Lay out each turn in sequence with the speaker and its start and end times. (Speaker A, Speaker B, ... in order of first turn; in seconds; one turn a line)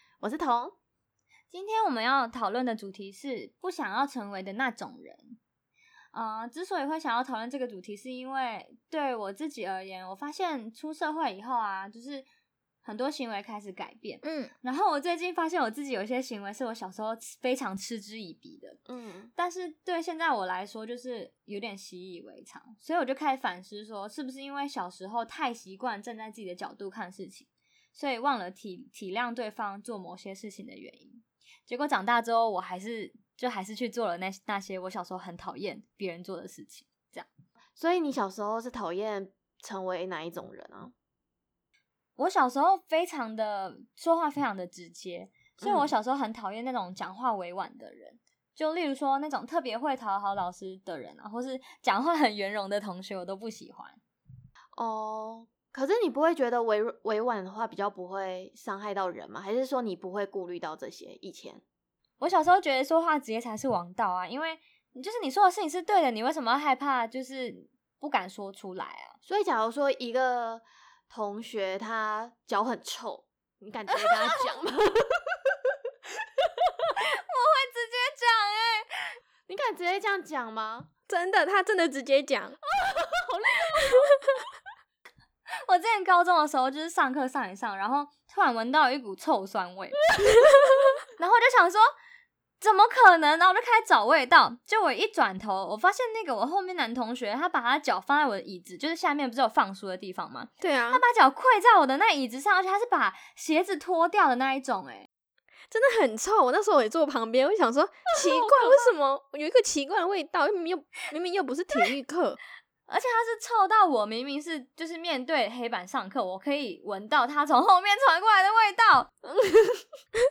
Speaker A: 0.2-0.7
Speaker B: 1.5-5.4
Speaker B: 6.1-12.2
Speaker B: 12.8-18.8
Speaker C: 14.2-14.5
Speaker A: 18.9-19.3
Speaker B: 19.4-37.3
Speaker A: 37.8-40.9
Speaker B: 42.2-54.0
Speaker A: 45.6-45.9
Speaker A: 54.8-61.6
Speaker B: 62.2-69.2
Speaker A: 69.2-75.5
Speaker B: 77.0-79.2
Speaker A: 79.5-80.9
Speaker C: 81.1-82.6
Speaker A: 82.7-84.2
Speaker B: 85.7-90.0
Speaker B: 91.2-91.9
Speaker B: 92.6-105.1
Speaker C: 100.6-101.0
Speaker C: 105.7-112.4
Speaker B: 112.9-119.1
Speaker A: 119.2-119.8